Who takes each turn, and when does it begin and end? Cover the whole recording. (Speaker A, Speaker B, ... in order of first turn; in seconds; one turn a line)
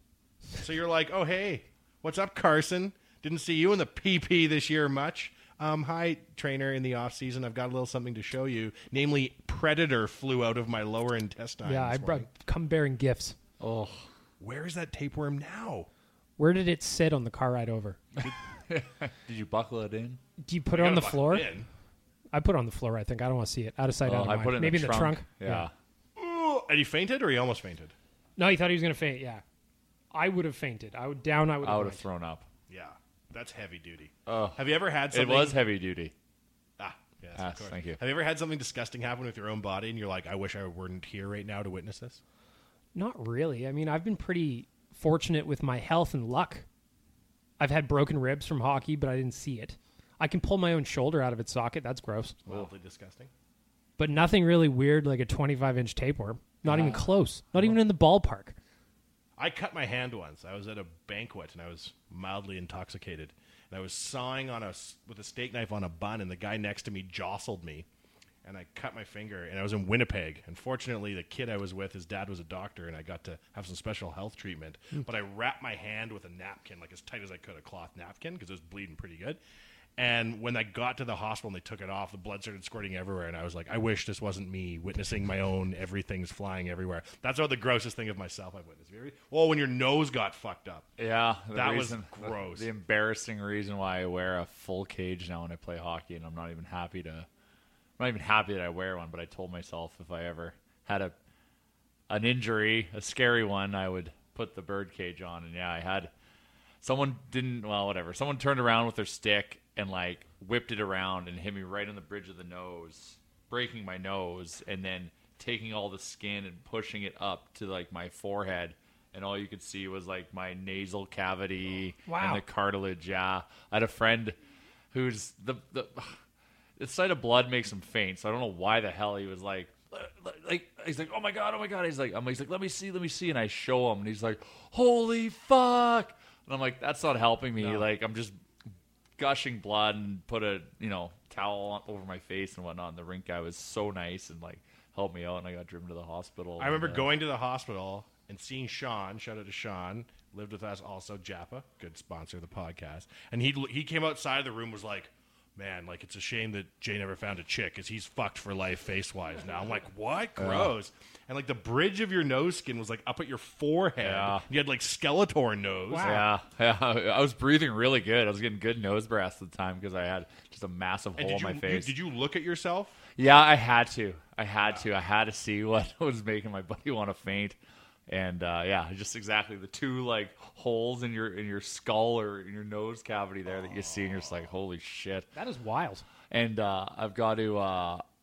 Speaker A: 0.6-12.3
Speaker B: 11.6-13.3
Speaker C: 13.6-14.1
Speaker A: 14.4-15.9
Speaker B: 16.4-18.0
Speaker C: 18.2-20.2
Speaker B: 20.4-21.5
Speaker A: 20.7-21.7
Speaker B: 22.3-25.7
Speaker C: 24.0-25.7
Speaker A: 26.1-27.9
Speaker B: 28.4-29.4
Speaker B: 30.1-32.0
Speaker C: 31.6-32.5
Speaker A: 32.7-35.6
Speaker C: 34.3-36.1
Speaker A: 36.8-42.2
Speaker C: 37.3-38.0
Speaker B: 42.9-46.6
Speaker B: 47.6-52.4
Speaker A: 52.4-53.3
Speaker B: 54.0-58.5
Speaker A: 56.6-57.0
Speaker A: 59.4-67.8
Speaker A: 68.4-79.4
Speaker A: 80.0-90.9
Speaker C: 91.0-97.3
Speaker A: 91.5-92.7
Speaker C: 98.0-101.1
Speaker C: 102.1-106.1
Speaker C: 106.8-124.3
Speaker B: 122.1-122.4
Speaker C: 124.9-126.1
Speaker C: 126.8-138.3
Speaker A: 137.6-137.9
Speaker C: 139.2-147.1
Speaker A: 146.6-166.2
Speaker C: 160.4-160.7
Speaker C: 164.0-164.4
Speaker B: 165.9-166.3
Speaker C: 166.0-171.9
Speaker A: 171.2-173.0
Speaker C: 173.2-177.6
Speaker C: 178.1-185.3
Speaker A: 183.5-184.5
Speaker B: 185.3-186.0
Speaker C: 186.3-188.0